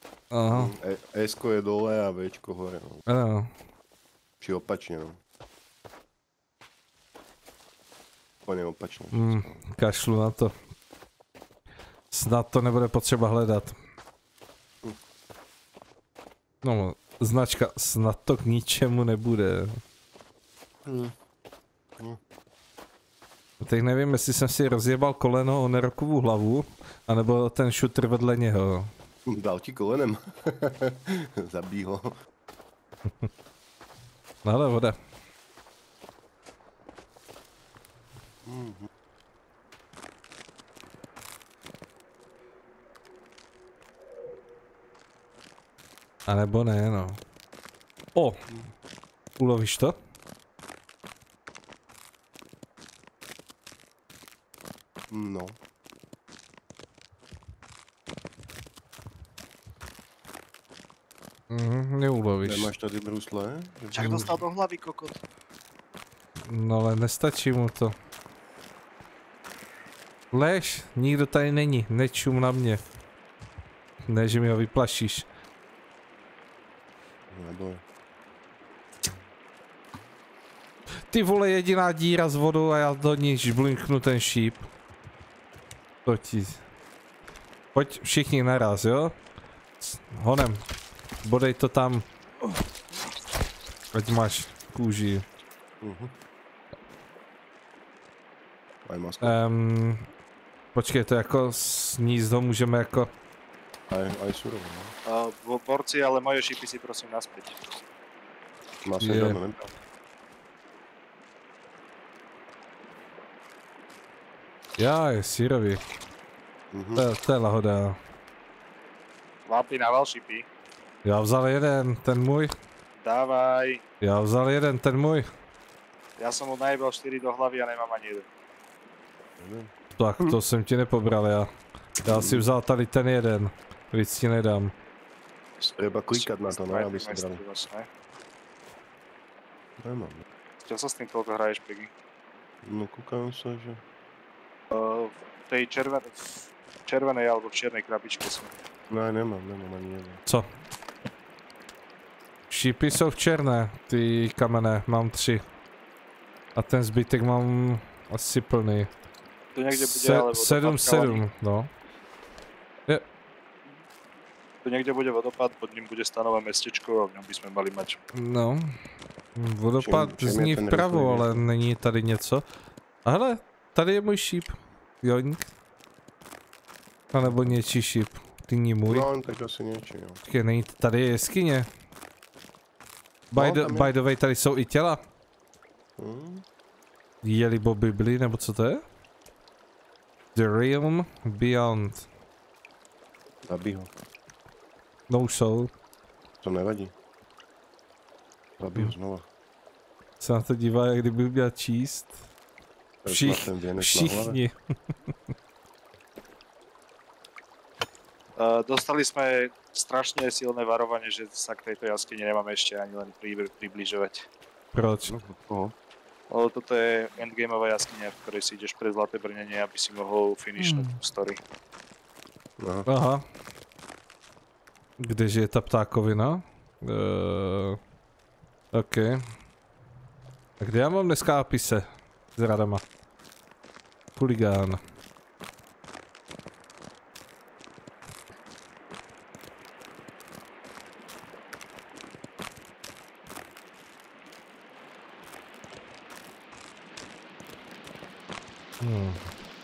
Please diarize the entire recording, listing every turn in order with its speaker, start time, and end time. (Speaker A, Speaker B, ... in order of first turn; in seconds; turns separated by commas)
Speaker A: 0.3-0.7, Speaker B: 0.5-3.0, Speaker A: 3.1-3.5, Speaker B: 4.4-5.2, Speaker B: 8.4-9.6, Speaker A: 9.1-10.5, Speaker A: 12.1-13.8, Speaker A: 16.6-19.8, Speaker B: 20.8-21.1, Speaker A: 23.6-28.9, Speaker B: 29.3-32.1, Speaker A: 34.4-35.0, Speaker B: 38.4-38.9, Speaker A: 46.3-47.2, Speaker A: 49.4-50.0, Speaker B: 55.1-55.5, Speaker A: 61.5-62.7, Speaker B: 62.4-64.4, Speaker C: 63.9-65.2, Speaker A: 66.4-67.9, Speaker A: 70.3-72.8, Speaker A: 74.1-75.3, Speaker B: 77.3-77.8, Speaker A: 81.1-84.7, Speaker A: 86.0-86.6, Speaker A: 87.7-89.1, Speaker A: 89.8-90.6, Speaker A: 91.2-92.0, Speaker A: 93.9-95.2, Speaker B: 95.8-96.1, Speaker B: 98.8-99.4, Speaker A: 99.2-100.0, Speaker A: 100.7-103.1, Speaker B: 103.9-104.9, Speaker C: 105.0-107.6, Speaker B: 108.8-109.7, Speaker A: 109.0-109.4, Speaker A: 114.8-115.8, Speaker B: 116.7-117.0, Speaker A: 117.0-118.0, Speaker C: 119.5-120.5, Speaker A: 121.0-122.5, Speaker C: 123.0-123.8, Speaker A: 124.0-125.2, Speaker C: 126.2-128.3, Speaker B: 129.4-130.3, Speaker A: 130.0-131.5, Speaker A: 132.0-134.7, Speaker B: 132.1-132.5, Speaker B: 135.6-137.4, Speaker C: 136.1-137.9, Speaker B: 139.8-140.2, Speaker C: 140.6-141.9, Speaker B: 142.6-143.8, Speaker C: 144.7-146.2, Speaker C: 146.8-148.5, Speaker B: 148.9-150.2, Speaker A: 152.5-155.4, Speaker A: 156.5-158.9, Speaker C: 159.5-161.2, Speaker A: 159.7-161.7, Speaker C: 164.6-168.0, Speaker A: 168.1-168.7, Speaker A: 169.3-172.4, Speaker B: 169.8-171.4, Speaker A: 173.0-175.5, Speaker A: 177.1-179.1, Speaker B: 177.2-177.6, Speaker B: 178.9-180.2, Speaker A: 180.2-181.7, Speaker A: 183.3-185.0, Speaker B: 183.3-183.9, Speaker B: 186.0-186.4, Speaker A: 187.2-188.8, Speaker A: 190.3-192.1, Speaker B: 193.5-193.9, Speaker A: 195.1-195.7, Speaker B: 196.4-196.9, Speaker B: 198.6-199.3, Speaker A: 200.2-202.2, Speaker B: 203.0-204.4, Speaker A: 203.1-204.5, Speaker C: 208.3-214.3, Speaker A: 214.7-215.1, Speaker B: 215.1-215.7, Speaker C: 216.3-221.4, Speaker A: 220.6-220.9, Speaker B: 222.6-222.9, Speaker A: 222.9-223.2, Speaker A: 225.0-227.8, Speaker A: 228.7-229.2, Speaker A: 230.6-232.8, Speaker A: 234.2-234.8, Speaker A: 248.8-249.2